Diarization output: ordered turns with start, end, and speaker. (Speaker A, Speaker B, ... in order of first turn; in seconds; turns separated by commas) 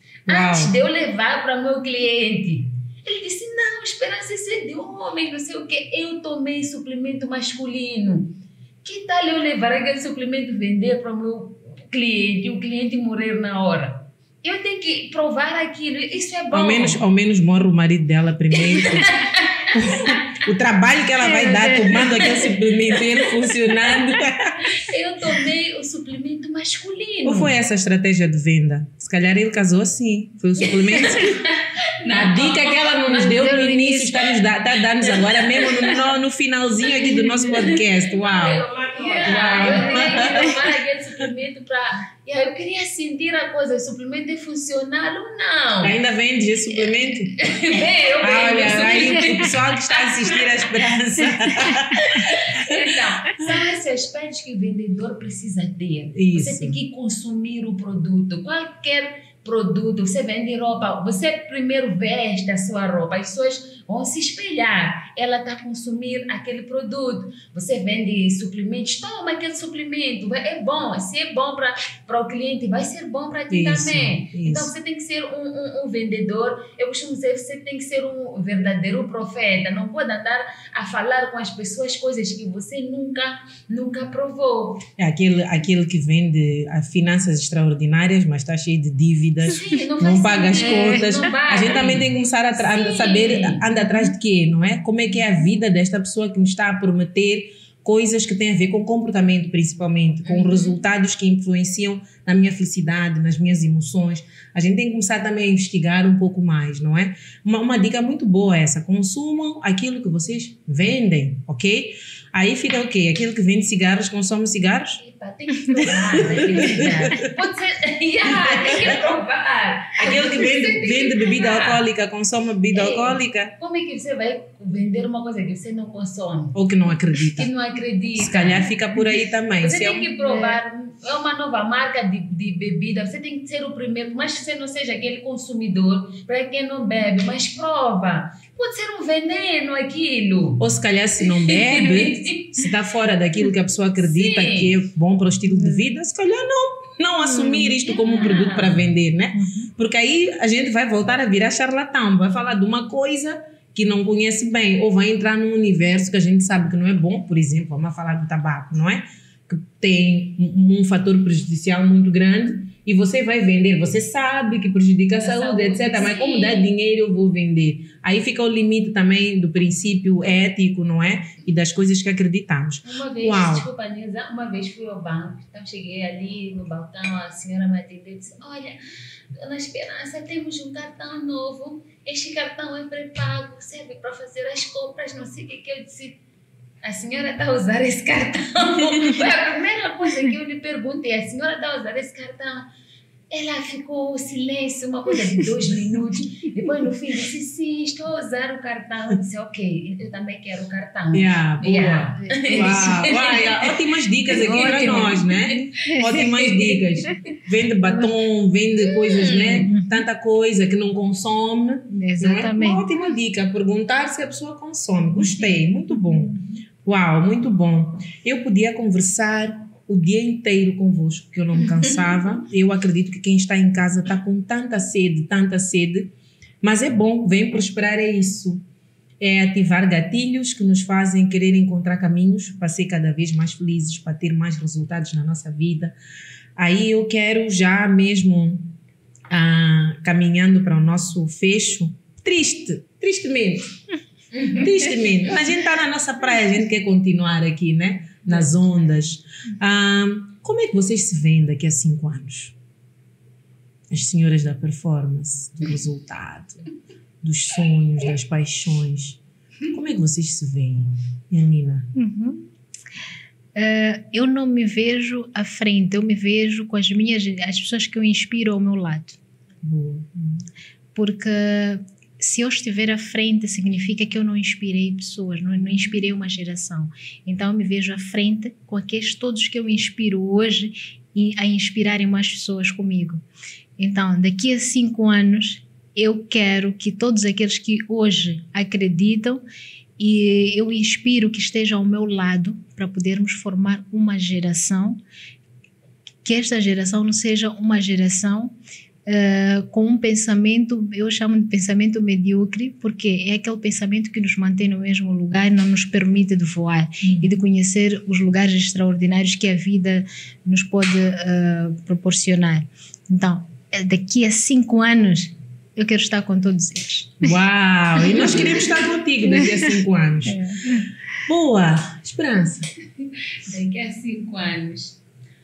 Speaker A: 0.3-0.8, Speaker B: 0.3-17.0, Speaker A: 16.5-19.1, Speaker B: 18.5-20.2, Speaker A: 19.7-24.7, Speaker B: 21.2-22.5, Speaker B: 24.6-27.5, Speaker A: 27.2-31.4, Speaker B: 30.9-33.6, Speaker A: 32.0-38.7, Speaker C: 33.1-34.4, Speaker C: 37.1-37.5, Speaker B: 37.6-46.0, Speaker C: 39.0-40.6, Speaker A: 39.2-40.6, Speaker A: 45.8-47.4, Speaker B: 47.4-50.9, Speaker A: 48.2-53.5, Speaker B: 51.6-84.9, Speaker A: 56.1-56.8, Speaker A: 73.5-74.7, Speaker A: 85.0-115.0, Speaker B: 89.5-93.8, Speaker C: 90.5-91.1, Speaker B: 100.3-100.8, Speaker B: 115.0-121.8, Speaker A: 115.8-117.3, Speaker A: 118.3-119.0, Speaker A: 120.0-123.5, Speaker B: 122.7-126.6, Speaker A: 126.5-127.5, Speaker B: 127.1-128.7, Speaker A: 128.2-130.1, Speaker B: 129.6-140.6, Speaker C: 130.2-130.6, Speaker A: 140.6-173.7, Speaker B: 141.2-142.7, Speaker B: 144.0-144.8, Speaker B: 147.8-148.8, Speaker B: 165.2-166.7, Speaker B: 172.8-178.8, Speaker B: 179.3-186.2, Speaker B: 186.8-192.7, Speaker B: 193.3-206.8, Speaker A: 201.1-228.6, Speaker C: 202.2-203.1, Speaker C: 204.3-205.2, Speaker C: 205.8-206.2, Speaker B: 208.8-209.7, Speaker C: 209.7-210.0, Speaker C: 211.9-212.9, Speaker A: 229.2-235.9, Speaker A: 236.6-238.7, Speaker A: 239.3-243.8, Speaker B: 244.3-244.7, Speaker A: 244.5-252.6, Speaker A: 253.9-256.6, Speaker A: 257.2-261.9, Speaker C: 261.9-262.5, Speaker C: 263.6-269.2, Speaker A: 269.6-270.4, Speaker C: 270.9-283.2, Speaker C: 283.8-289.4, Speaker C: 290.0-295.0, Speaker C: 296.2-317.4, Speaker A: 307.0-307.3, Speaker A: 317.2-322.7, Speaker C: 318.0-318.5, Speaker C: 320.3-320.9, Speaker B: 323.0-325.0